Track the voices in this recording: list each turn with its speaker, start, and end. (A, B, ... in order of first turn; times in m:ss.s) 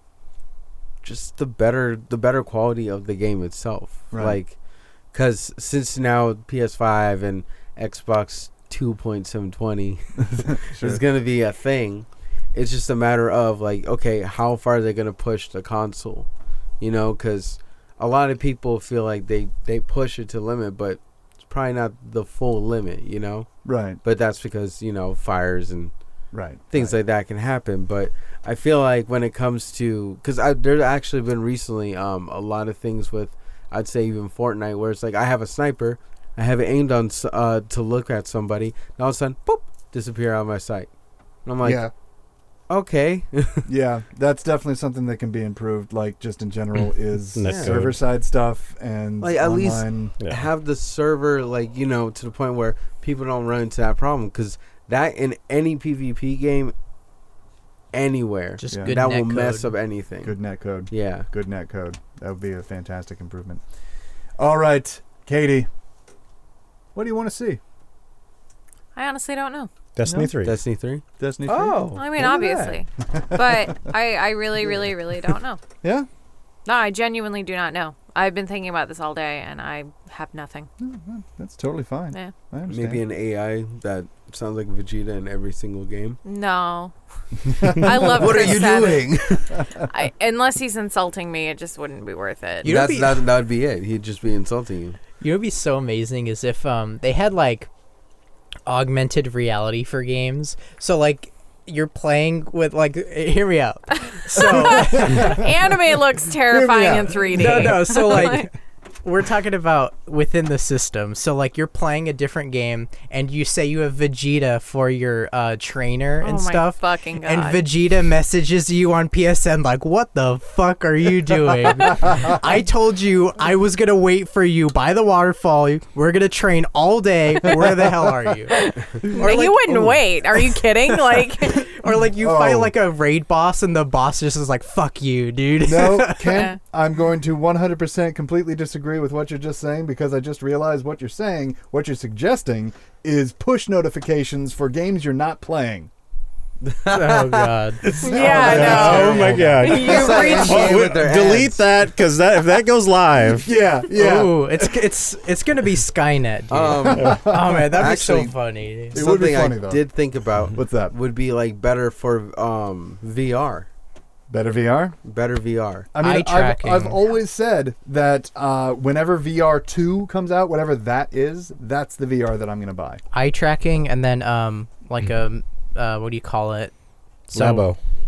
0:01.0-0:04.6 A
0:04.1-0:04.4 B
0:05.1-0:16.3 A
0:10.3-0:11.0 B
0:16.8-0:23.5 A
0:23.6-0:24.0 B
0:24.0-0:25.9 A
0:26.3-0:27.0 B
0:26.7-0:40.9 A
0:41.4-0:41.8 A
0:41.6-0:41.9 B
0:42.7-0:43.7 A
0:43.7-0:50.2 B
0:47.4-0:48.0 C
0:47.4-0:47.9 A
0:49.2-0:56.7 A
0:50.2-0:50.5 C
0:57.9-1:00.4 A
0:58.6-0:59.7 D
0:58.7-0:59.0 B
1:00.2-1:03.6 B
1:00.9-1:01.3 A
1:04.4-1:05.7 B
1:07.0-1:07.6 B
1:09.0-1:09.7 E
1:10.0-1:10.6 C
1:10.0-1:10.4 B
1:10.4-1:12.0 A
1:11.2-1:13.8 B
1:12.0-1:15.6 E
1:15.8-1:16.1 B
1:16.7-1:20.7 E
1:20.8-1:23.0 B
1:22.7-1:26.2 A
1:26.2-1:26.9 E
1:27.6-1:28.5 B
1:27.6-1:32.7 E
1:27.8-1:29.6 A
1:29.5-1:29.9 B
1:32.6-1:33.3 D
1:32.6-1:35.0 A
1:35.2-1:37.7 D
1:38.7-1:45.4 D
1:43.9-1:48.5 E
1:44.4-1:45.4 B
1:46.5-1:48.3 B
1:47.4-2:08.7 D
1:56.2-1:57.7 E
2:08.5-2:11.8 E
2:09.0-2:10.0 B
2:09.2-2:10.0 D
2:10.9-2:16.5 D
2:12.2-2:12.7 B
2:15.6-2:25.9 B
2:16.3-2:16.6 E
2:26.6-2:27.6 A
2:26.9-2:28.0 D
2:27.8-2:31.1 B
2:28.0-2:30.7 E
2:28.3-2:33.6 C
2:28.8-2:31.6 A
2:33.3-2:34.8 B
2:33.9-2:39.0 D
2:36.5-2:38.4 A
2:36.8-2:38.0 B
2:38.9-2:43.7 A
2:39.0-2:39.9 B
2:40.6-2:41.0 B
2:44.3-2:45.0 B
2:45.0-2:45.9 A
2:45.9-2:53.0 B
2:46.0-2:47.0 D
2:53.1-2:56.7 D
2:57.3-2:57.7 D
2:57.3-2:57.8 C